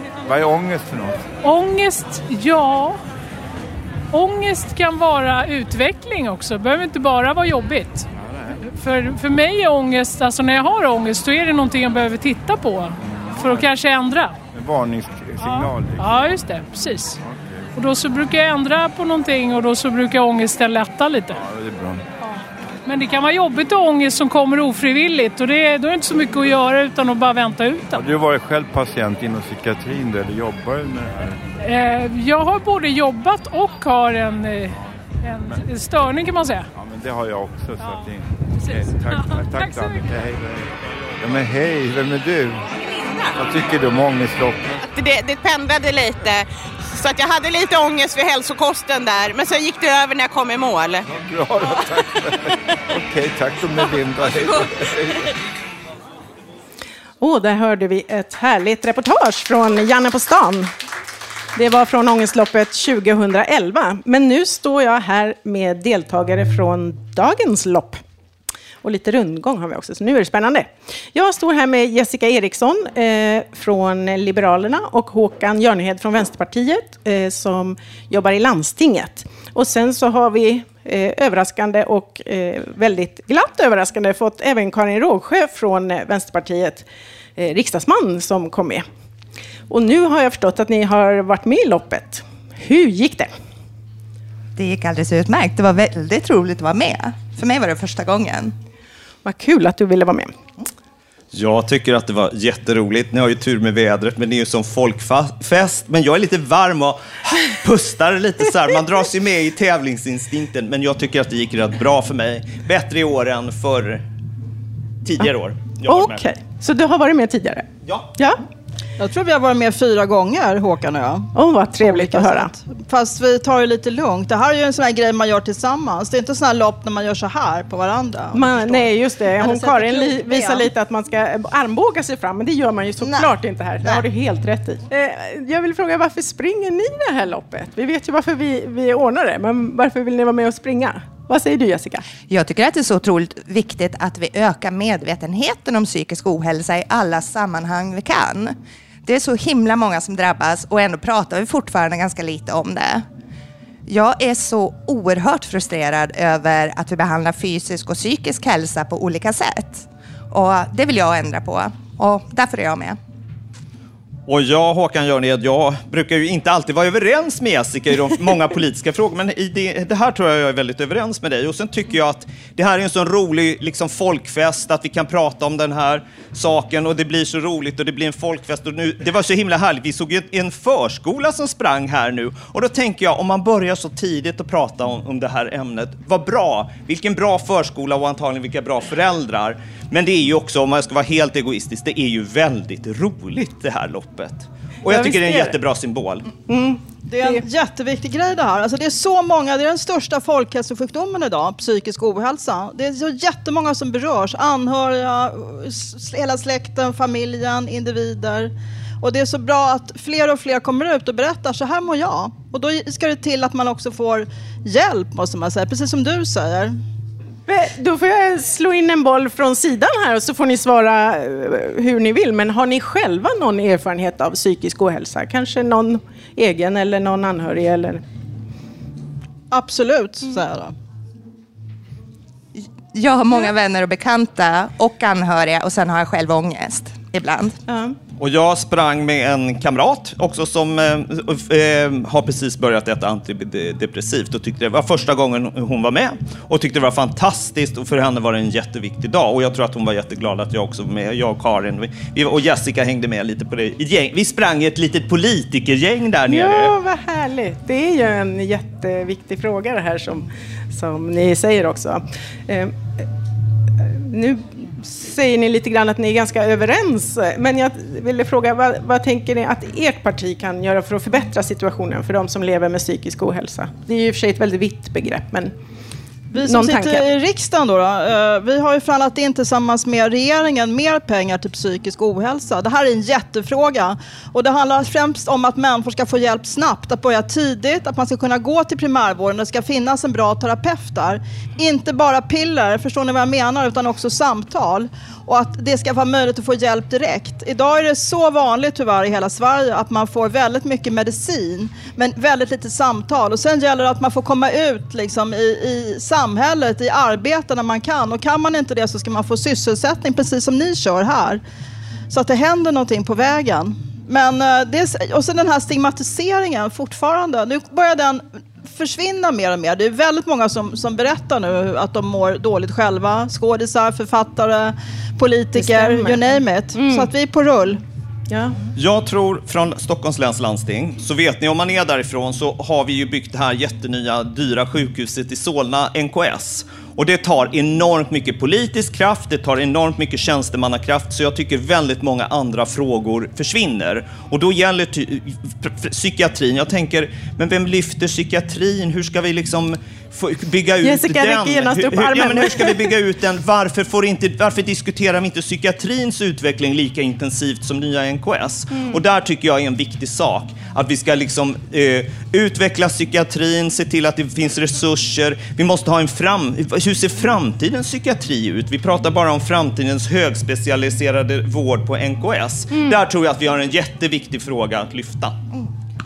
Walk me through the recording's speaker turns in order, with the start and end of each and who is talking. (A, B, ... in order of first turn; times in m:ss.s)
0:00.2-0:01.2 A
0:01.4-0:03.0 B
0:04.1-0:08.0 B
0:08.1-0:08.6 A
0:08.6-0:14.4 B
0:13.0-0:13.7 A
0:14.5-0:16.2 A
0:15.4-0:17.2 B
0:17.2-0:17.6 A
0:17.8-0:21.4 B
0:21.3-0:22.0 A
0:22.8-0:28.0 B
0:27.9-0:31.4 A
0:31.6-0:36.7 B
0:36.8-0:42.6 A
0:37.8-0:38.1 B
0:38.6-0:40.1 B
0:43.4-0:44.8 A
0:44.9-0:51.0 C
0:51.1-0:55.3 A
0:57.2-1:00.7 D
1:01.6-1:08.0 D
1:08.8-1:26.9 D
1:27.4-1:28.8 D
1:29.7-1:33.3 D
1:34.6-1:38.5 E
1:39.2-1:40.3 D
1:41.3-1:54.0 F
1:55.0-1:56.2 F
1:55.9-1:58.4 D
1:59.0-2:10.6 G
2:01.4-2:02.5 D
2:08.3-2:22.0 D
2:13.0-2:13.3 C
2:22.2-2:33.0 E
2:33.9-2:43.0 E
2:44.3-3:16.3 F
3:14.9-3:15.4 G
3:15.0-3:15.5 D
3:16.5-3:17.4 D
3:17.0-3:36.8 G
3:37.5-3:48.0 D
3:49.5-3:50.7 G
3:52.6-3:57.6 E
3:57.7-3:58.0 D
3:58.2-4:16.8 F
4:16.3-4:23.0 D
4:23.8-4:35.5 D
4:36.3-4:37.0 D
4:36.3-5:11.4 G
5:12.1-5:27.8 G
5:25.6-5:27.1 D
5:28.3-5:28.6 D
5:28.8-6:15.4 F
5:50.8-5:52.9 D
5:58.7-5:59.0 D
6:12.7-6:13.0 D